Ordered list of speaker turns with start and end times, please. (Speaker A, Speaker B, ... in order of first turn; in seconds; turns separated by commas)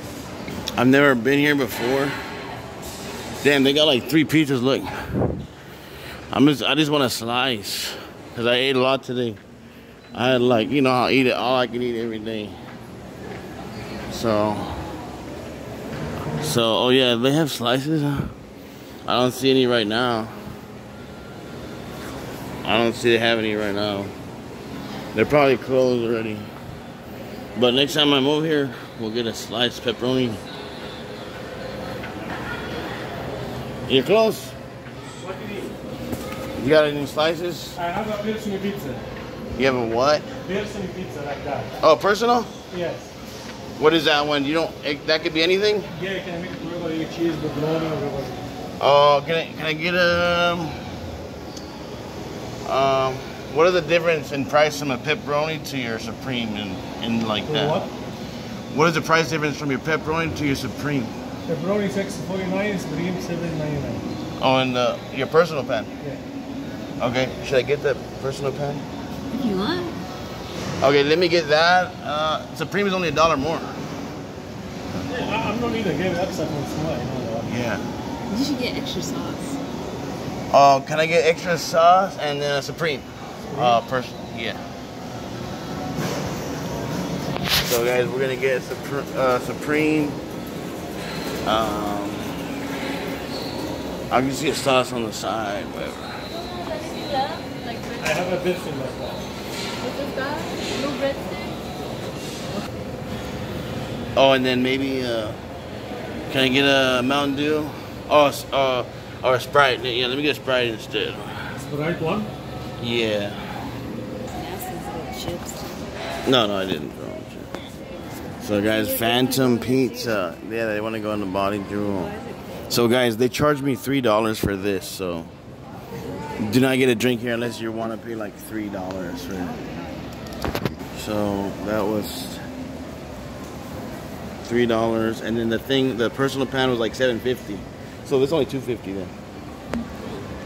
Speaker A: 0.8-2.2, Speaker A: 3.4-5.4, Speaker A: 6.3-9.4, Speaker A: 10.1-12.6, Speaker A: 14.1-14.8, Speaker A: 16.3-18.3, Speaker A: 19.1-20.4, Speaker A: 22.6-24.1, Speaker A: 25.1-26.5, Speaker A: 27.6-30.4, Speaker A: 33.9-34.5, Speaker B: 35.2-35.7, Speaker A: 36.6-37.8, Speaker B: 37.8-39.0, Speaker A: 39.6-40.3, Speaker B: 40.4-41.7, Speaker A: 41.8-42.5, Speaker B: 42.7-43.1, Speaker A: 43.8-45.9, Speaker B: 45.9-48.5, Speaker A: 48.8-50.8, Speaker A: 52.7-57.8, Speaker B: 57.5-57.9, Speaker A: 58.7-61.1, Speaker B: 61.5-64.1, Speaker A: 64.4-65.9, Speaker A: 67.0-68.9, Speaker C: 69.3-70.0, Speaker A: 70.8-73.8, Speaker B: 75.1-77.5, Speaker A: 77.5-77.8, Speaker C: 78.3-79.6, Speaker A: 80.5-84.6, Speaker B: 83.5-83.8, Speaker A: 87.6-90.2, Speaker A: 91.5-92.4, Speaker A: 94.1-96.3, Speaker C: 96.3-98.0, Speaker B: 98.0-99.2, Speaker C: 99.8-101.6, Speaker A: 104.2-105.4, Speaker A: 106.3-111.6, Speaker B: 111.6-112.3, Speaker A: 112.8-113.4, Speaker C: 114.3-115.9, Speaker A: 116.2-117.5, Speaker A: 118.4-122.1, Speaker C: 118.6-120.2, Speaker C: 122.0-122.6, Speaker A: 122.7-125.3, Speaker A: 126.4-129.6, Speaker A: 130.9-132.4, Speaker A: 134.4-139.1